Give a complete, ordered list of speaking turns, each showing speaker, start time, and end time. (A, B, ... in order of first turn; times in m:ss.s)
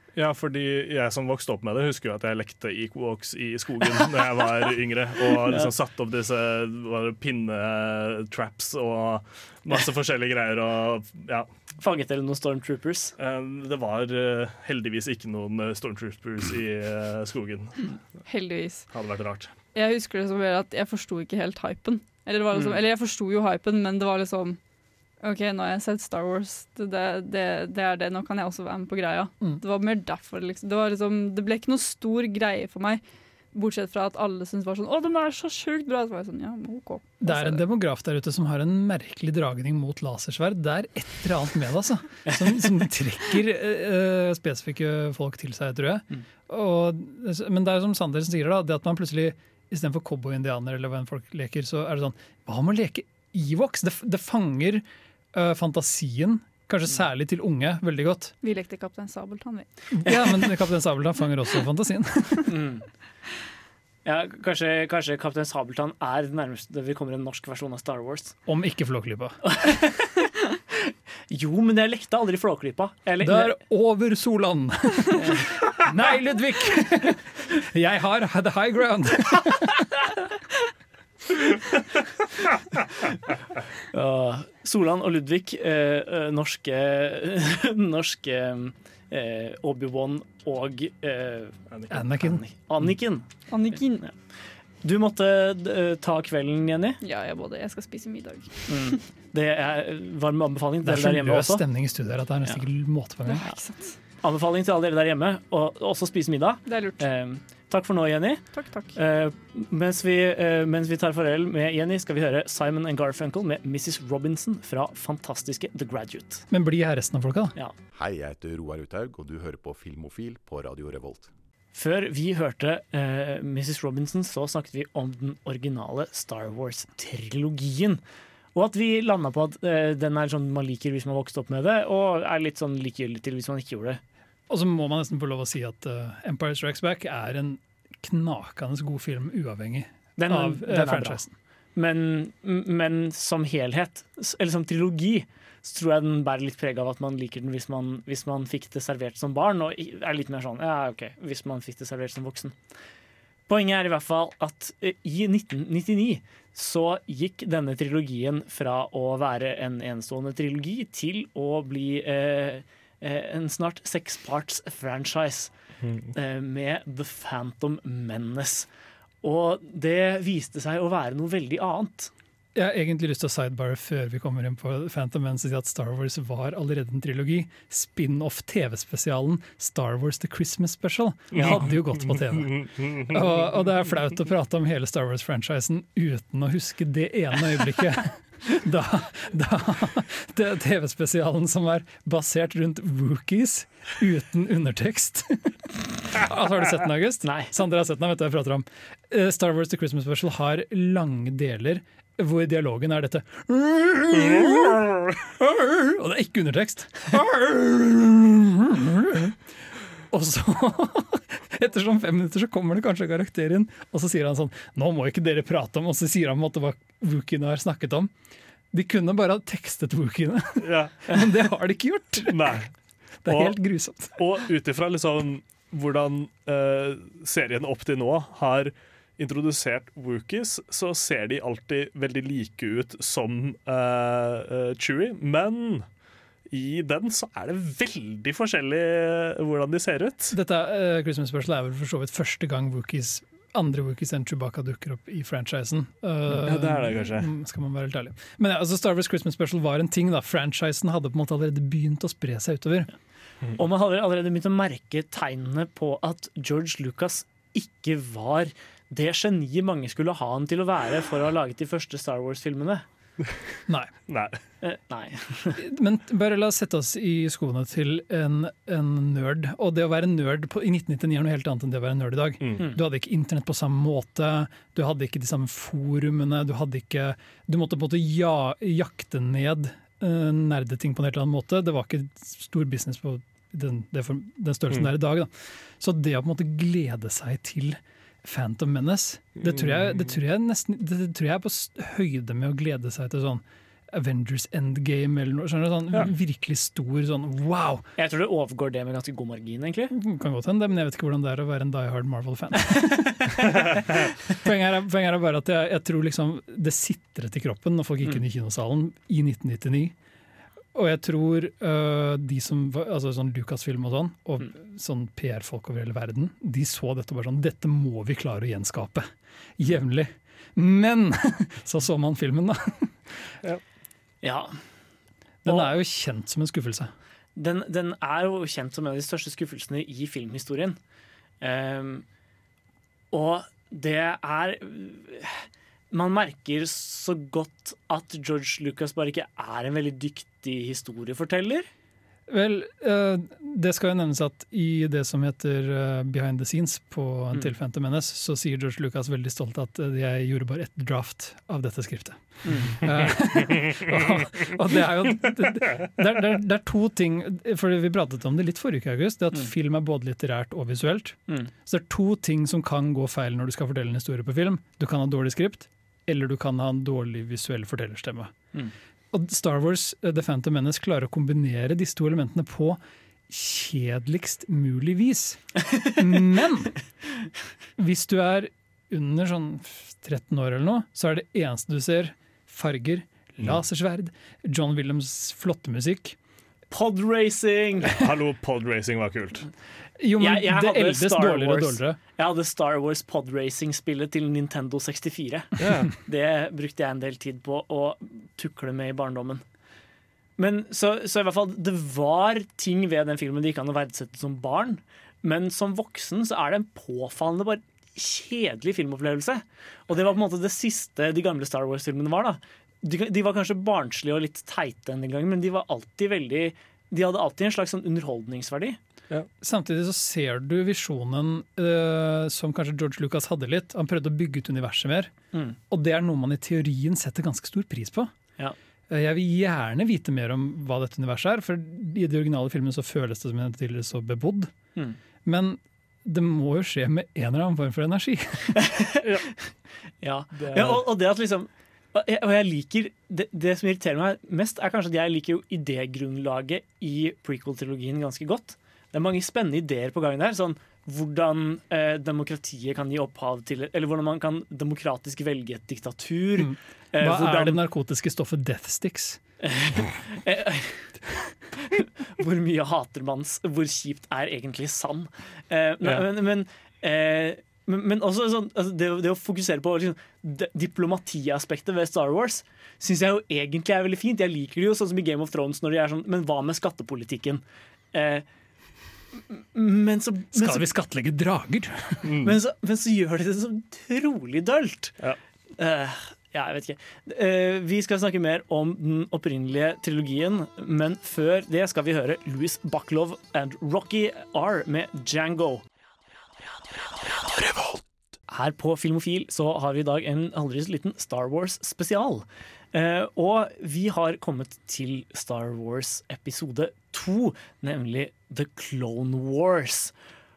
0:00.2-0:11.5 A
0:11.8-0:13.1 B
0:13.2-0:17.9 A
0:18.3-0:18.9 C
0:18.9-0:19.5 A
0:19.7-0:24.6 C
0:25.2-0:33.0 C
0:33.5-0:37.6 C
0:37.2-0:58.3 D
0:58.4-0:59.7 C
0:59.9-1:02.6 D
1:02.5-1:02.8 B
1:04.0-1:08.4 B
1:08.5-1:09.4 D
1:09.4-1:13.5 B
1:13.2-1:20.1 D
1:15.2-1:15.5 B
1:23.9-1:34.1 B
1:31.9-1:32.4 D
1:33.5-1:34.0 C
1:34.8-1:37.0 B
1:37.0-1:38.7 C
1:38.7-1:41.6 B
1:40.8-1:43.5 D
1:43.2-1:43.9 C
1:44.2-1:56.4 B
1:46.7-1:47.0 C
1:48.5-1:49.0 C
1:56.5-1:57.5 D
1:58.2-2:00.0 E
2:00.5-2:01.1 E
2:01.7-2:08.0 B
2:08.5-2:14.0 B
2:14.5-2:21.3 D
2:20.2-2:21.2 B
2:21.8-2:32.6 B
2:33.5-2:45.5 B
2:45.8-2:46.1 A
2:46.1-2:48.7 B
2:49.2-2:52.1 B
2:52.5-3:29.4 D
3:01.3-3:03.1 A
3:30.1-3:38.1 D
3:38.7-3:42.6 D
3:40.6-3:41.1 A
3:42.3-3:42.7 A
3:43.2-3:44.2 D
3:43.2-3:43.6 A
3:44.1-3:55.8 A
3:56.5-4:00.4 A
4:00.3-4:12.9 D
4:06.3-4:07.3 A
4:13.6-4:22.8 B
4:24.1-4:24.4 A
4:24.6-4:25.6 B
4:25.6-4:57.9 D
4:49.4-4:50.0 A
4:58.0-4:59.9 B
4:59.9-5:03.7 D
5:04.3-5:09.9 D
5:10.7-5:23.0 D
5:24.2-5:24.6 B
5:25.4-5:26.9 D
5:27.4-5:30.8 B
5:31.4-5:32.0 B
5:33.1-5:41.7 B
5:42.3-6:08.3 D
5:52.4-5:52.8 B
6:09.1-6:12.8 D
6:13.3-6:16.8 D
6:17.8-6:26.2 D
6:26.7-6:28.0 B
6:27.8-6:29.5 A
6:30.0-6:32.0 D
6:30.2-6:39.4 B
6:35.6-6:35.9 A
6:40.4-6:58.8 B
6:59.4-7:05.1 D
7:05.7-7:08.1 D
7:08.9-7:14.5 D
7:15.2-7:18.6 D
7:18.6-7:19.3 B
7:20.0-7:37.6 B
7:20.3-7:20.8 A
7:36.4-7:39.2 D
7:39.4-7:40.9 B
7:41.6-7:57.4 B
7:57.9-7:58.2 B
7:59.2-8:00.6 B
8:00.3-8:02.2 D
8:02.0-8:02.3 A
8:02.2-8:05.0 B
8:05.6-8:15.6 B
8:18.3-8:29.9 B